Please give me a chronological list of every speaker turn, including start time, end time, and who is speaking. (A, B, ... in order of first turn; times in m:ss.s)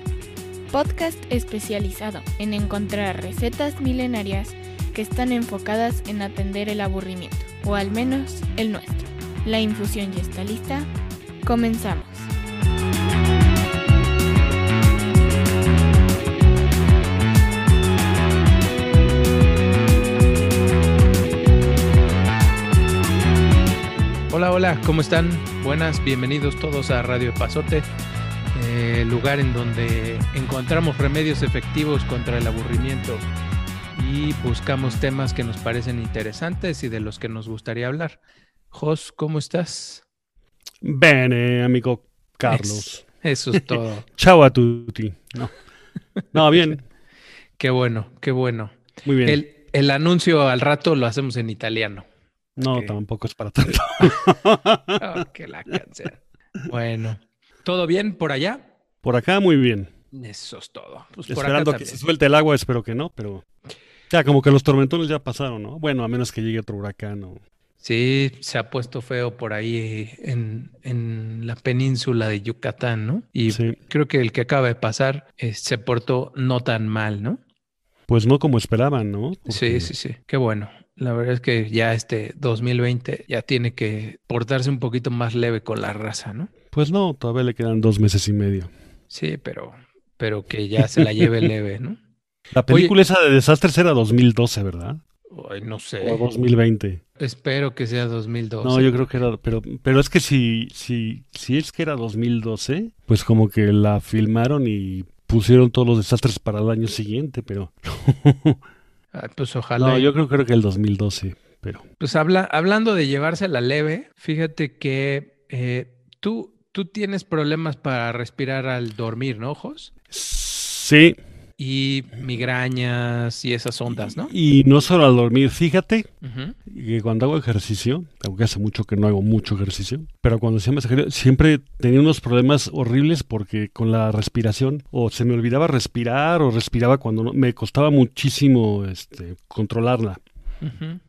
0:00.7-0:10.9 A
0:11.4-0:12.3 A
0:24.3-0:27.8 B
0:28.5-0:33.2 B
0:33.9-0:38.2 B
0:38.7-0:40.0 B
0:40.8-0:43.0 C
0:42.4-0:44.0 B
0:43.6-0:45.5 C
0:46.2-0:46.7 B
0:46.3-0:46.8 C
0:47.6-0:52.0 B
0:49.0-0:49.4 C
0:52.6-0:55.2 C
0:52.6-0:53.0 B
0:55.0-0:58.7 B
0:59.0-0:59.9 C
1:00.1-1:02.0 B
1:01.3-1:03.4 C
1:04.1-1:07.4 C
1:07.8-1:17.4 B
1:13.5-1:13.8 C
1:18.1-1:19.9 C
1:19.5-1:26.5 B
1:26.7-1:28.7 C
1:29.1-1:32.0 B
1:30.8-1:31.5 C
1:32.5-1:35.0 C
1:32.7-1:32.9 B
1:35.3-1:36.2 B
1:36.0-1:37.0 C
1:37.2-1:39.2 B
1:38.6-1:48.6 C
1:49.1-1:50.1 B
1:49.8-1:51.8 C
1:52.0-1:59.9 B
2:00.1-2:01.2 C
2:01.6-2:04.3 B
2:04.0-2:06.1 C
2:06.2-2:06.6 B
2:06.7-2:20.2 C
2:20.6-2:21.0 B